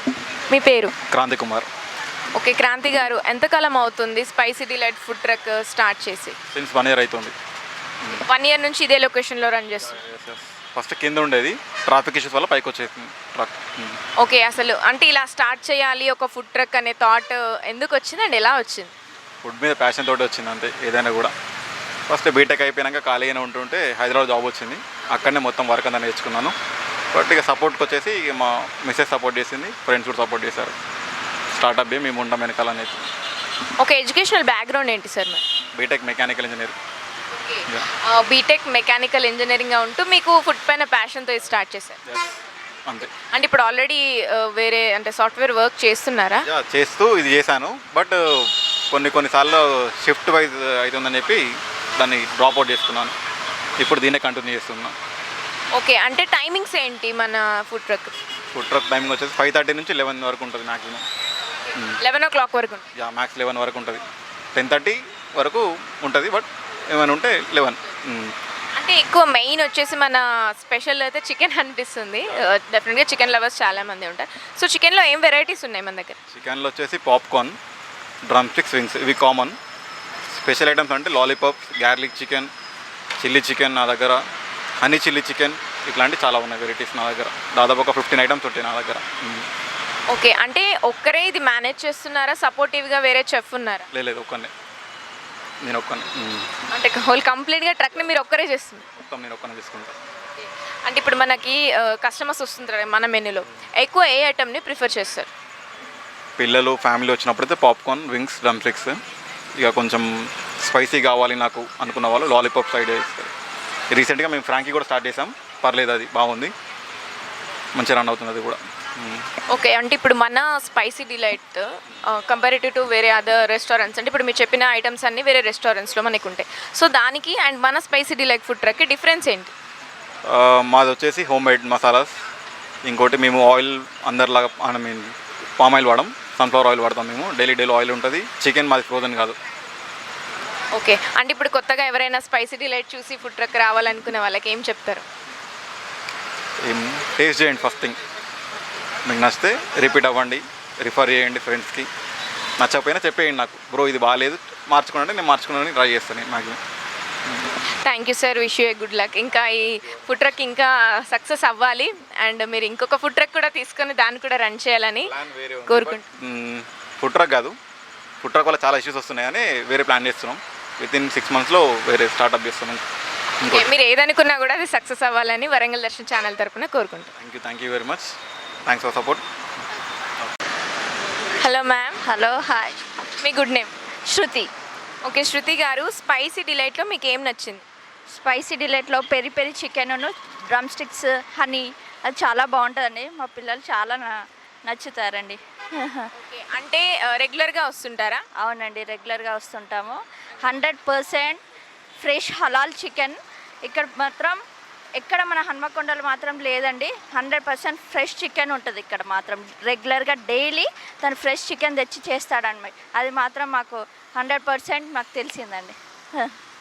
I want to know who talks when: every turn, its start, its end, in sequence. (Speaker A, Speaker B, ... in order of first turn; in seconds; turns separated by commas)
Speaker A: 0.5-0.9, Speaker B: 1.1-1.7, Speaker A: 2.4-6.4, Speaker B: 6.5-7.3, Speaker A: 8.1-10.0, Speaker B: 9.9-14.0, Speaker A: 14.2-18.9, Speaker B: 19.4-21.3, Speaker B: 22.1-26.5, Speaker B: 27.1-30.8, Speaker B: 31.5-33.0, Speaker A: 33.8-35.4, Speaker B: 35.8-36.8, Speaker A: 37.3-42.0, Speaker B: 42.1-43.1, Speaker A: 43.3-46.5, Speaker B: 46.5-51.5, Speaker B: 52.0-53.1, Speaker B: 53.8-55.0, Speaker A: 55.7-58.1, Speaker B: 58.5-61.0, Speaker A: 62.0-62.9, Speaker B: 63.0-64.0, Speaker B: 64.5-68.3, Speaker A: 68.8-76.2, Speaker B: 76.3-77.6, Speaker B: 78.3-79.6, Speaker B: 80.3-82.5, Speaker B: 83.2-84.2, Speaker B: 84.8-89.5, Speaker A: 90.1-93.9, Speaker B: 93.9-94.5, Speaker B: 95.6-96.5, Speaker A: 96.7-98.9, Speaker B: 99.0-100.0, Speaker A: 100.4-105.3, Speaker B: 106.4-109.0, Speaker B: 109.6-113.3, Speaker B: 113.9-116.5, Speaker B: 117.7-119.3, Speaker A: 119.5-129.5, Speaker B: 130.3-132.2, Speaker B: 132.8-139.4, Speaker A: 140.7-145.1, Speaker B: 146.6-148.0, Speaker B: 149.1-151.9, Speaker B: 152.6-156.6, Speaker A: 157.8-165.1, Speaker B: 165.0-167.6, Speaker A: 165.7-166.1, Speaker B: 168.2-172.8, Speaker B: 173.4-173.7, Speaker A: 173.5-177.1, Speaker B: 177.2-179.2, Speaker A: 181.4-182.0, Speaker C: 182.1-182.8, Speaker A: 183.2-183.7, Speaker C: 184.1-184.5, Speaker A: 185.0-187.7, Speaker C: 188.1-196.1, Speaker A: 196.2-198.2, Speaker C: 198.4-201.4, Speaker C: 202.0-204.4, Speaker C: 205.0-216.3